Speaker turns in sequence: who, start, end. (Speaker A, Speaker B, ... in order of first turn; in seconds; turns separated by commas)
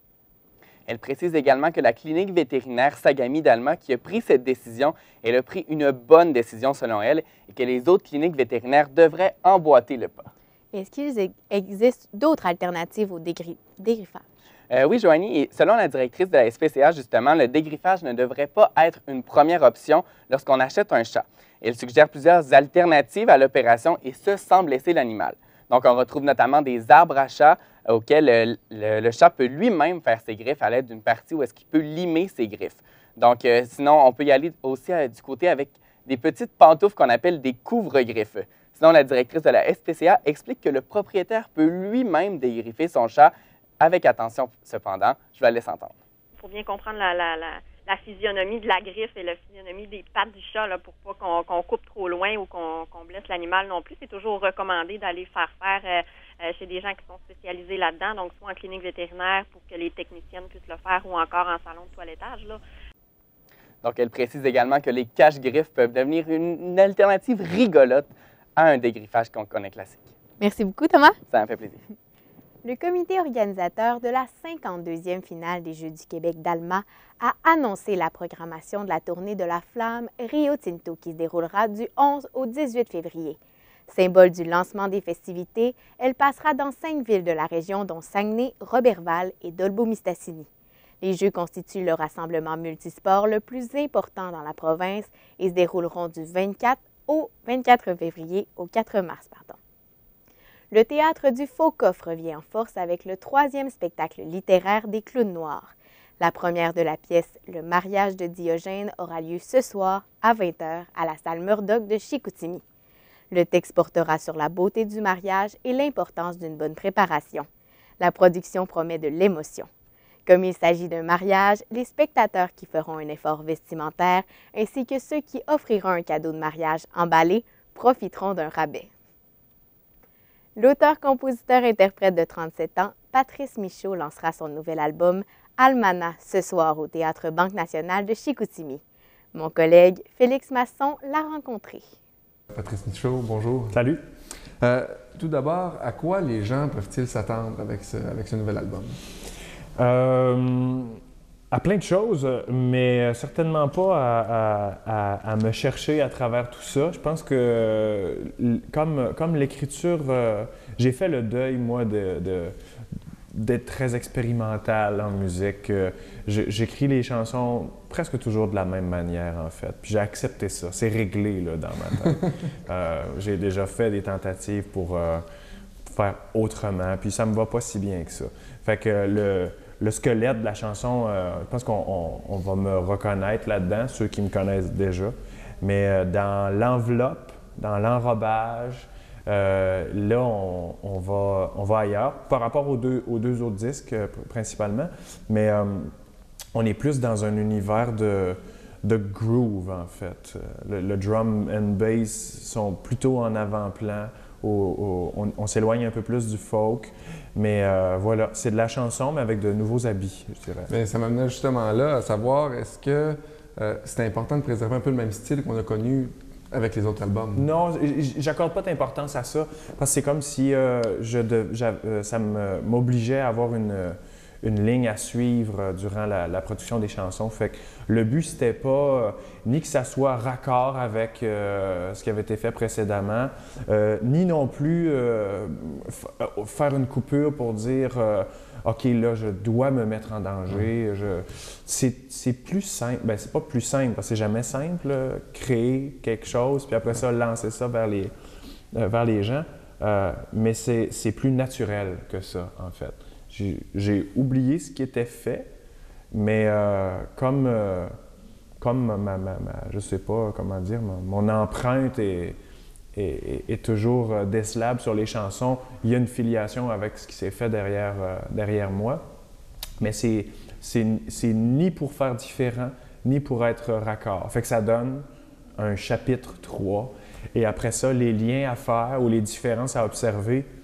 Speaker A: 0.9-10.3, Speaker B: 10.7-14.2, Speaker A: 14.7-45.9, Speaker C: 46.4-62.6, Speaker A: 63.8-70.1, Speaker B: 70.4-71.2, Speaker A: 71.3-71.8, Speaker B: 72.6-83.4, Speaker B: 83.9-90.5, Speaker B: 91.0-99.6, Speaker B: 100.7-112.6, Speaker B: 113.3-117.5, Speaker B: 118.0-119.7, Speaker B: 120.2-128.9, Speaker B: 130.6-138.8, Speaker B: 139.3-141.8, Speaker D: 142.5-143.8, Speaker E: 143.7-144.0, Speaker D: 144.6-148.9, Speaker E: 149.8-151.0, Speaker E: 151.5-162.5, Speaker E: 163.3-175.2, Speaker E: 175.9-195.9, Speaker E: 196.5-210.7, Speaker D: 210.7-217.5, Speaker E: 217.3-248.1, Speaker E: 248.7-255.5, Speaker E: 256.1-258.0, Speaker E: 258.6-262.4, Speaker E: 262.9-269.0, Speaker E: 269.8-275.1, Speaker E: 275.6-280.5